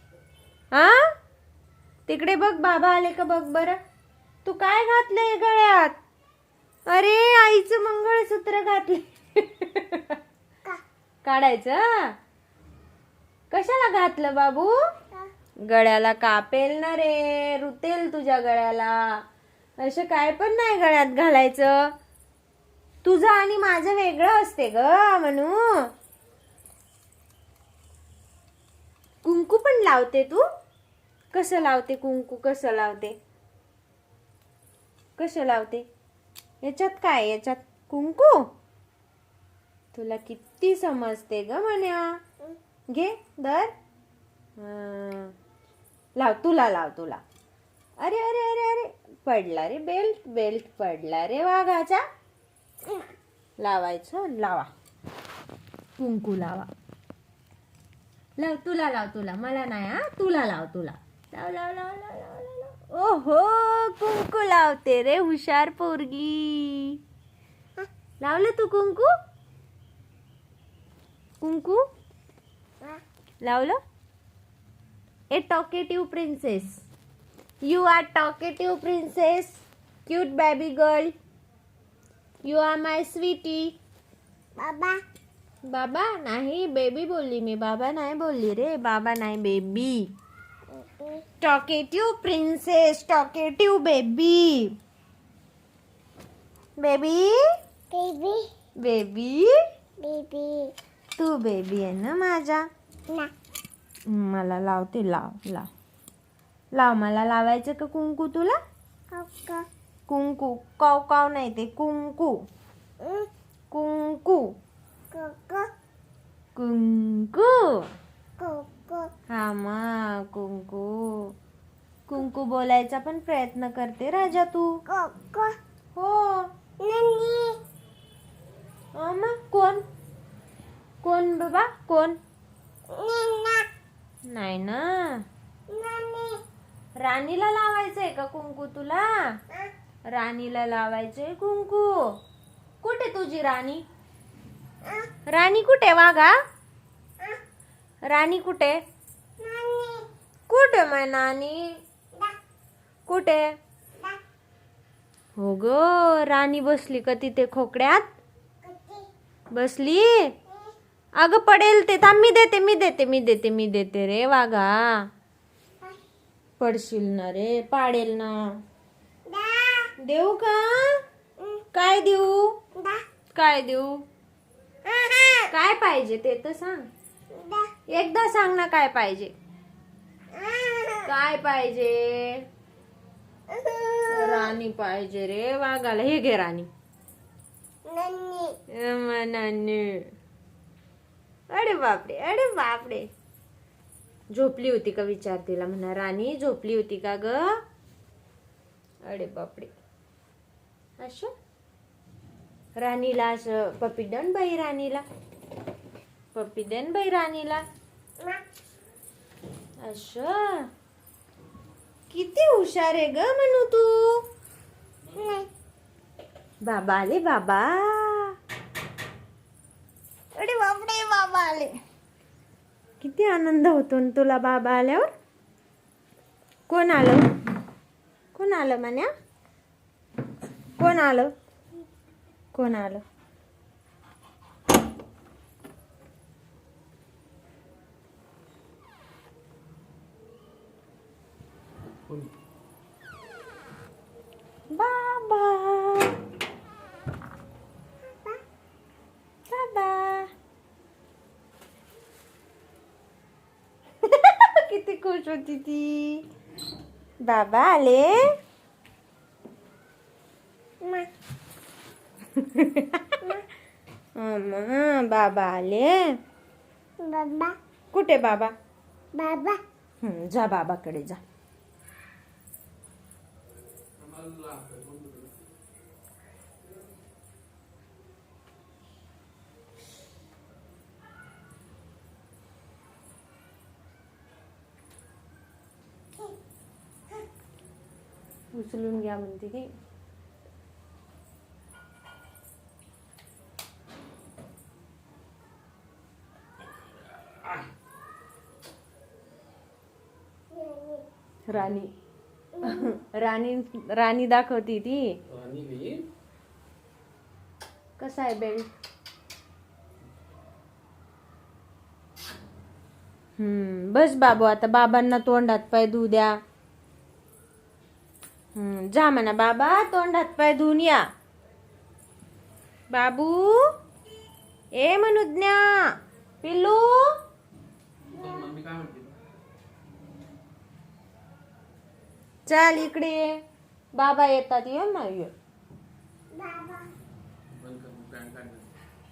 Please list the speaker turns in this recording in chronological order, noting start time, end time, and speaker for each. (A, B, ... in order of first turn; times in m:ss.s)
0:00.7-0:01.0 A
0:02.1-0:03.8 A
0:04.4-0:06.0 A
0:06.9-0:10.2 A
0:11.2-0:12.1 A
0:13.5-0:14.7 A
0:15.6-0:19.2 A
0:19.8-0:21.9 A
0:23.0-0:25.9 A
0:29.2-0:30.4 A
0:31.3-0:33.2 A
0:35.2-0:35.8 A
0:36.6-0:38.5 A
0:39.9-0:42.2 A
0:42.9-0:43.7 A
0:44.6-0:45.3 A
0:46.2-0:47.2 A
0:48.0-0:52.0 A
0:53.6-0:54.7 A
0:56.0-0:56.7 A
0:58.4-1:07.0 A
1:08.2-1:09.1 A
1:11.4-1:11.8 A
1:13.4-1:13.8 A
1:15.3-1:16.8 A
1:17.6-1:21.1 A
1:22.4-1:23.7 A
1:24.6-1:25.0 B
1:25.7-1:30.1 A
1:30.7-1:31.2 B
1:31.4-1:34.7 A
1:36.8-1:37.4 A
1:37.9-1:38.5 B
1:38.8-1:39.5 A
1:40.0-1:40.7 B
1:41.2-1:42.7 A
1:44.0-1:45.7 A
1:46.7-1:48.6 A
1:49.1-1:49.7 B
1:50.1-1:52.4 A
1:53.0-1:53.3 B
1:53.7-1:54.5 A
1:55.1-1:55.7 B
1:56.6-1:57.9 A
1:58.4-1:59.1 B
1:59.3-2:01.3 A
2:02.1-2:04.7 A
2:04.9-2:05.6 B
2:05.9-2:06.5 A
2:06.8-2:07.6 B
2:08.9-2:09.8 A
2:11.0-2:12.2 A
2:12.9-2:13.7 B
2:14.3-2:15.2 A
2:15.7-2:16.4 B
2:17.0-2:19.1 A
2:20.1-2:22.1 A
2:22.8-2:23.8 A
2:25.3-2:26.3 A
2:28.1-2:28.8 A
2:29.4-2:30.1 B
2:30.5-2:31.7 A
2:33.1-2:33.4 A
2:35.4-2:38.1 A
2:38.6-2:39.0 B
2:39.5-2:40.3 A
2:41.2-2:45.1 A
2:46.6-2:48.6 A
2:49.3-2:49.9 B
2:50.0-2:51.0 A
2:51.7-2:52.6 A
2:52.8-2:53.0 B
2:53.3-2:54.0 A
2:54.8-2:55.5 B
2:55.5-2:56.9 A
2:57.3-2:57.7 B
2:57.9-2:59.3 A
3:00.3-3:01.1 B
3:01.0-3:02.4 A
3:03.5-3:04.5 B
3:04.1-3:06.7 A
3:07.8-3:08.6 B
3:08.7-3:10.1 A
3:11.5-3:13.1 A
3:14.3-3:17.5 A
3:19.0-3:19.7 A
3:21.0-3:21.3 A
3:22.8-3:25.0 A
3:26.3-3:27.6 A
3:29.8-3:30.7 A
3:32.1-3:34.2 A
3:35.1-3:35.5 B
3:36.6-3:38.4 A
3:40.4-3:41.6 A
3:43.0-3:45.1 A
3:46.7-3:47.3 A
3:48.3-3:49.1 A
3:50.8-3:51.3 A
3:52.5-3:53.0 A
4:04.7-4:06.2 A
4:08.1-4:08.4 B
4:09.5-4:10.3 A
4:14.0-4:16.2 A
4:17.2-4:18.2 A
4:20.8-4:21.1 B
4:22.3-4:23.2 A
4:24.2-4:26.1 A
4:27.0-4:27.6 B
4:27.9-4:28.5 A
4:29.1-4:29.6 B
4:30.0-4:31.2 A
4:34.0-4:35.5 C
4:48.5-4:49.7 A
4:57.2-4:57.6 C
5:00.5-5:01.0 B
5:01.5-5:01.9 A
5:02.6-5:05.2 A
5:05.3-5:06.0 C
5:08.0-5:08.7 A
5:13.4-5:16.4 A
5:18.5-5:21.1 A
5:22.9-5:23.7 A
5:24.8-5:25.7 A
5:26.4-5:27.1 A
5:28.0-5:29.1 C
5:32.5-5:33.4 A
5:33.9-5:35.3 A
5:36.3-5:36.9 B
5:37.5-5:38.7 C